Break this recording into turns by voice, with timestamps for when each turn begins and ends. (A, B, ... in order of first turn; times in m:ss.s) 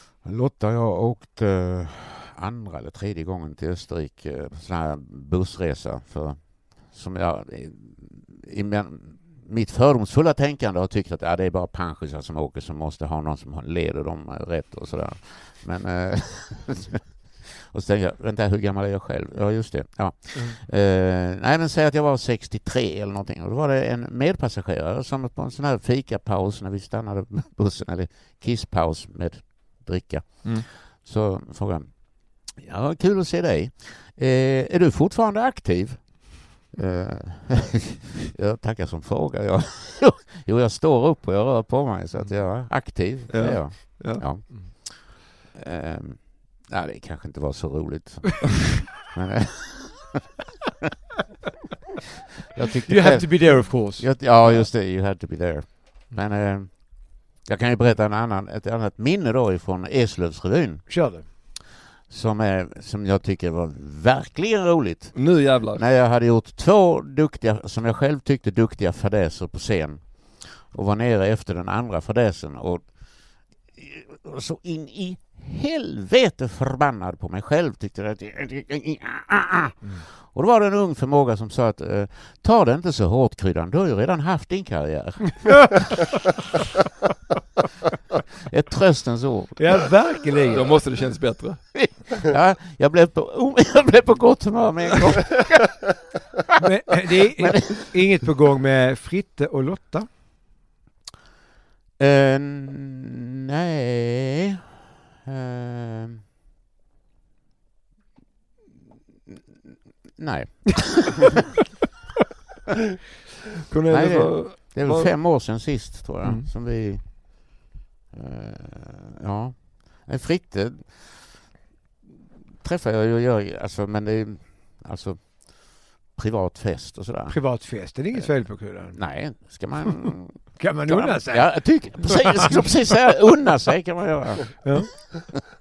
0:00.2-0:50.2 A
0:43.3-0:44.5 B
0:52.6-1:01.0 A
0:52.9-0:54.7 C
1:00.9-1:01.3 C
1:02.0-1:25.8 A
1:05.1-1:05.8 B
1:28.5-1:29.9 A
1:29.6-1:30.7 C
1:30.5-1:32.0 B
1:31.7-1:35.8 A
1:36.6-1:40.1 C
1:37.3-1:37.9 A
1:42.0-1:44.7 A
1:45.2-1:46.2 A
1:50.1-1:51.4 A
1:53.7-1:55.4 B
1:53.9-2:01.5 A
1:56.2-1:56.5 B
2:02.6-2:07.4 A
2:07.3-2:12.7 C
2:08.1-2:15.4 A
2:14.6-2:15.1 C